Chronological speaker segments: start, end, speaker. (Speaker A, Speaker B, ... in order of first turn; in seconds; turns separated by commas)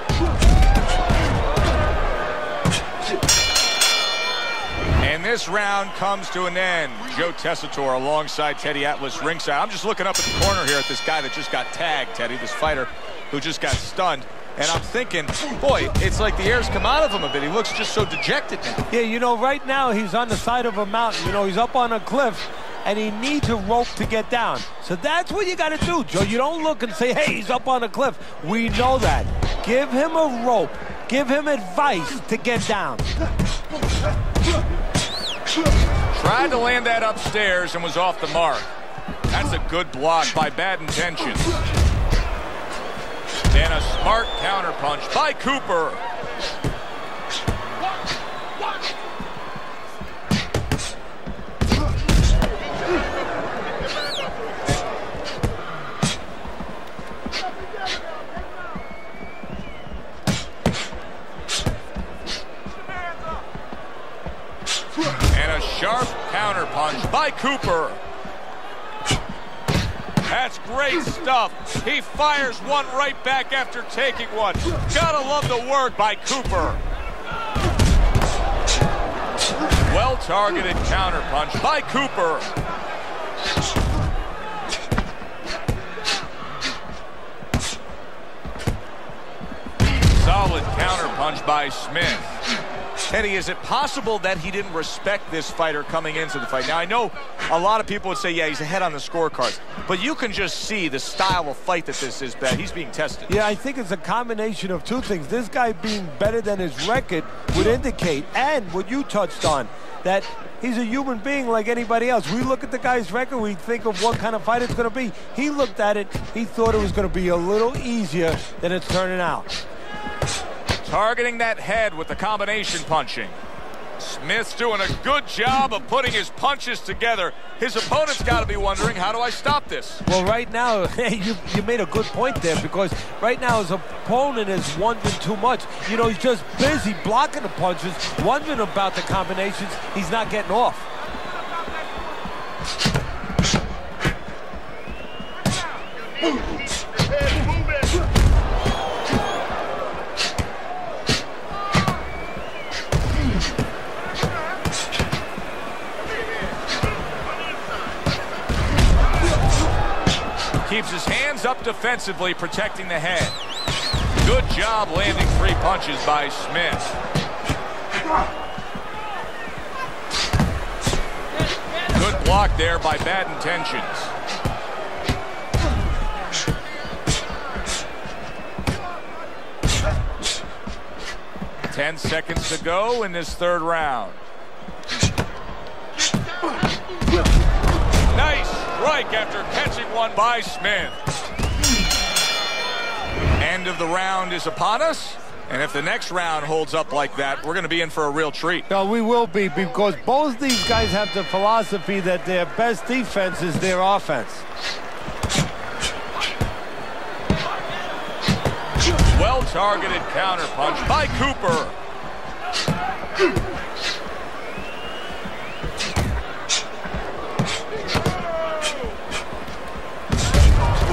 Speaker A: 5.0-18.9, Speaker B: 18.9-33.0, Speaker A: 36.1-38.7, Speaker A: 39.3-41.5, Speaker A: 43.5-46.0, Speaker A: 65.3-68.0, Speaker A: 70.2-76.8, Speaker A: 79.8-82.5, Speaker A: 90.1-92.3, Speaker A: 93.1-103.3, Speaker B: 103.3-119.5, Speaker A: 120.8-123.4, Speaker A: 124.0-130.0, Speaker B: 130.0-140.8, Speaker A: 160.7-163.3, Speaker A: 164.2-166.9, Speaker A: 171.9-174.1, Speaker A: 181.7-184.2, Speaker A: 188.1-191.0, Speaker A: 193.4-198.7, Speaker B: 198.7-204.4, Speaker A: 209.1-211.8